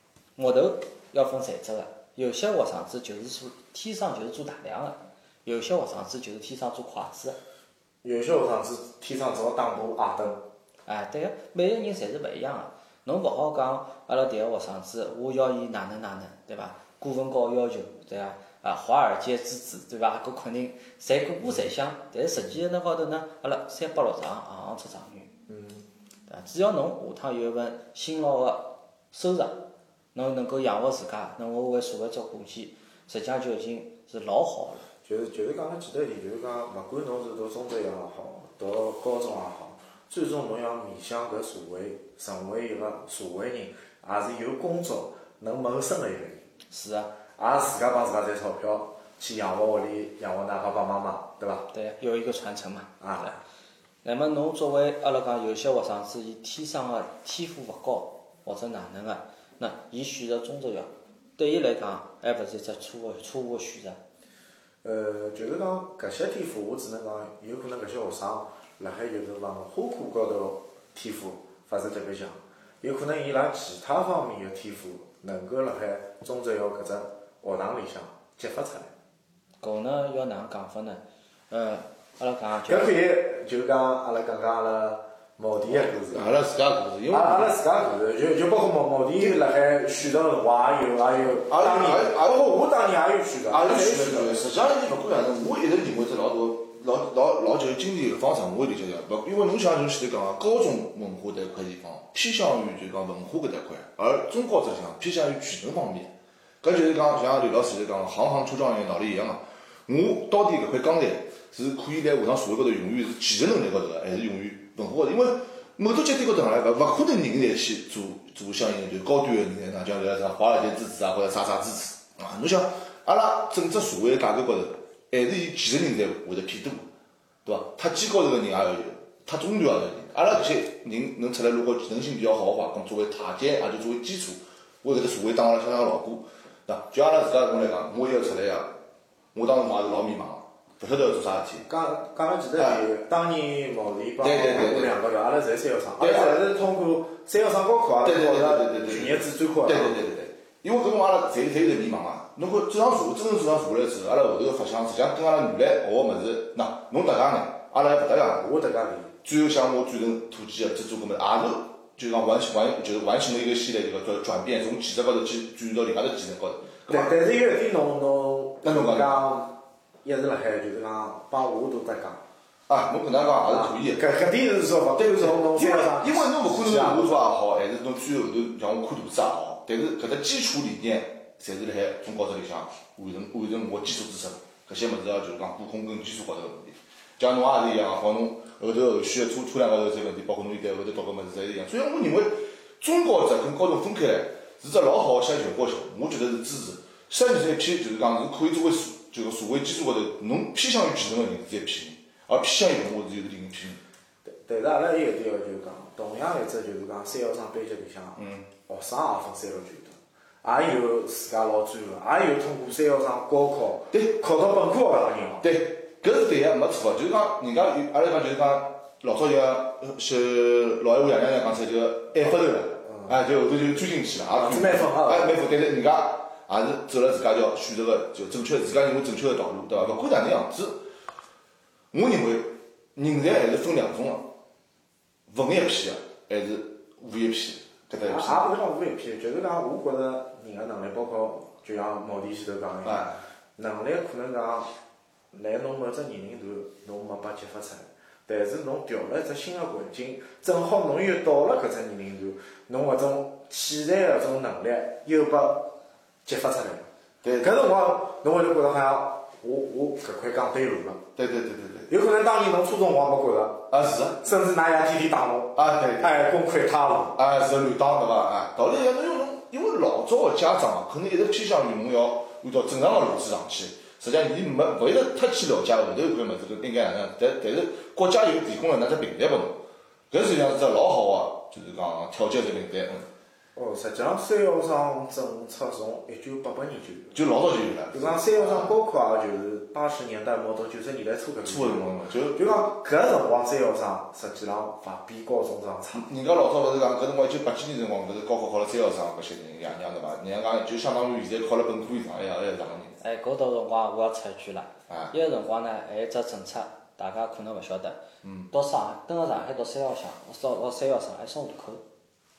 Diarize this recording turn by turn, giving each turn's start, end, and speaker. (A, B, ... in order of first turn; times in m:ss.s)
0:00.4-0:07.4 A
0:08.0-0:10.4 B
0:10.9-0:25.3 A
0:25.5-0:25.8 B
0:26.3-0:29.6 A
0:30.2-0:34.8 A
0:35.0-0:46.5 B
0:46.7-0:47.1 A
0:47.4-0:51.7 B
0:51.7-0:53.4 A
0:53.0-0:53.4 B
0:54.0-1:04.0 A
1:04.8-1:18.9 B
1:19.6-1:22.9 A
1:22.7-1:26.3 B
1:25.7-1:27.6 C
1:27.1-1:34.4 B
1:31.5-1:32.5 C
1:33.5-2:06.9 C
2:07.4-2:18.7 C
2:19.3-2:21.6 C
2:21.6-2:30.0 B
2:22.6-2:22.8 C
2:24.2-2:24.9 C
2:26.0-2:26.4 C
2:28.0-2:38.5 C
2:38.4-2:39.1 B
2:39.2-2:47.2 C
2:46.9-2:52.2 B
2:48.6-2:49.3 C
2:52.7-2:54.1 C
2:53.5-2:57.2 B
2:55.0-3:23.8 C
3:24.2-3:35.5 B
3:28.2-3:28.5 C
3:33.9-3:34.2 C
3:35.4-3:50.9 C
3:42.2-3:43.2 B
3:44.3-3:45.4 B
3:51.9-3:54.3 C
3:55.3-3:58.5 C
3:58.0-4:04.7 B
4:02.8-4:03.2 C
4:05.3-4:15.7 B
4:16.2-4:16.9 B
4:17.2-4:17.7 C
4:17.4-4:21.0 B
4:21.2-4:21.9 C
4:21.9-4:23.6 B
4:23.7-4:24.2 C
4:24.2-4:27.2 B
4:25.6-4:26.3 C
4:27.2-4:43.1 C
4:43.6-4:47.2 B
4:47.1-4:48.8 C
4:47.9-4:56.1 B
4:51.4-4:52.4 C
4:55.9-5:03.0 C
5:03.0-5:11.8 A
5:08.2-5:08.5 C